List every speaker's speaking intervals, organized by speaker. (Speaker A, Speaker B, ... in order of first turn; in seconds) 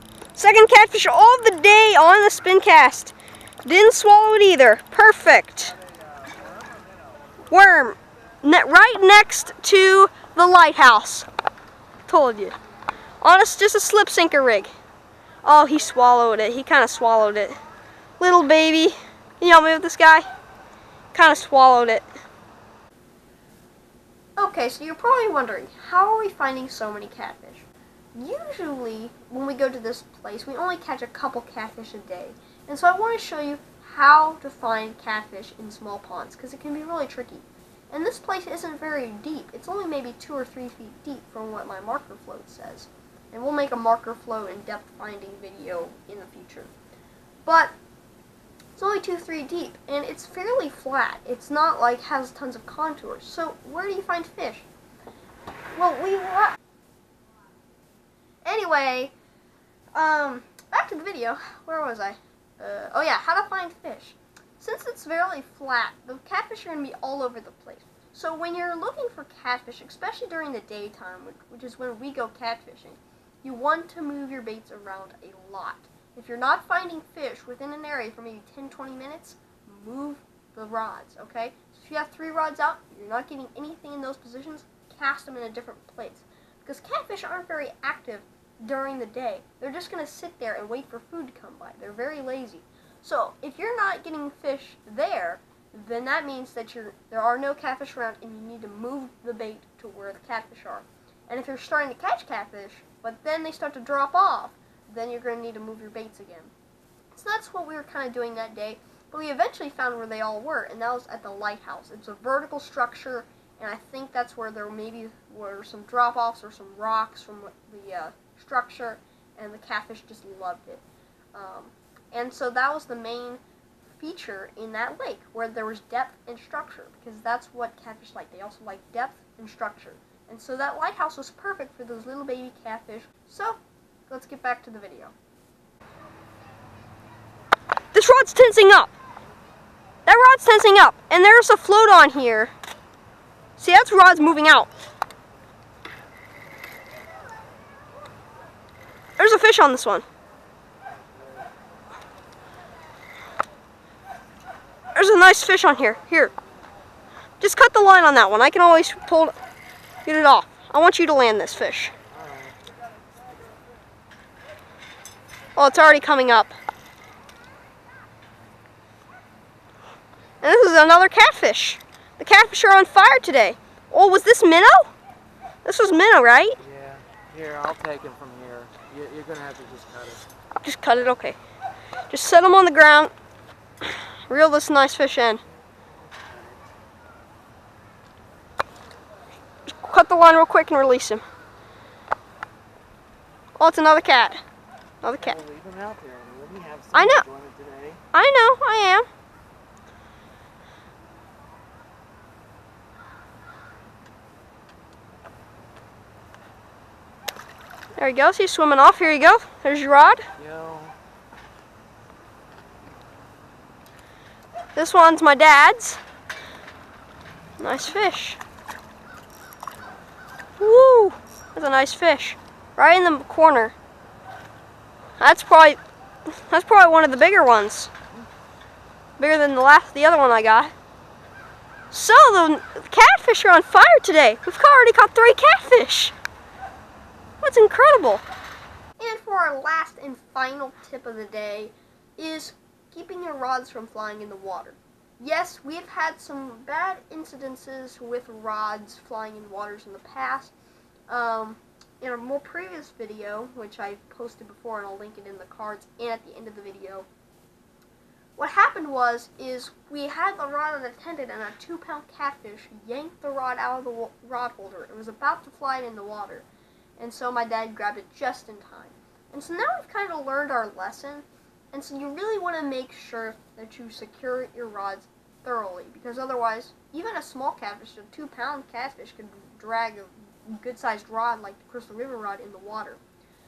Speaker A: 0.4-5.8, 7.5-11.3, 12.1-12.6, 13.2-14.7, 15.4-17.6, 18.2-20.3, 21.1-22.1, 24.4-46.7, 47.5-47.7, 48.8-54.7, 55.8-56.6, 58.5-59.1, 60.0-106.5, 107.1-123.4, 124.0-135.1, 137.9-138.9, 140.1-142.5, 143.6-144.7, 149.2-150.1, 154.9-156.3, 157.4-159.3, 160.1-161.9, 165.6-166.6, 170.4-174.9, 175.7-176.6, 180.6-181.4, 182.1-183.1, 183.8-185.4, 189.7-191.2, 193.6-194.4, 195.0-195.4, 196.9-197.2, 198.1-199.1, 208.0-210.3, 214.8-216.0, 217.6-218.4, 220.6-223.8, 225.2-227.9, 229.2-230.7, 231.9-236.2, 237.4-238.2, 239.0-250.5, 251.1-257.1, 258.4-266.5, 267.0-283.0
Speaker B: 162.1-162.6, 176.6-180.2, 185.9-186.6, 195.2-198.0, 210.4-210.9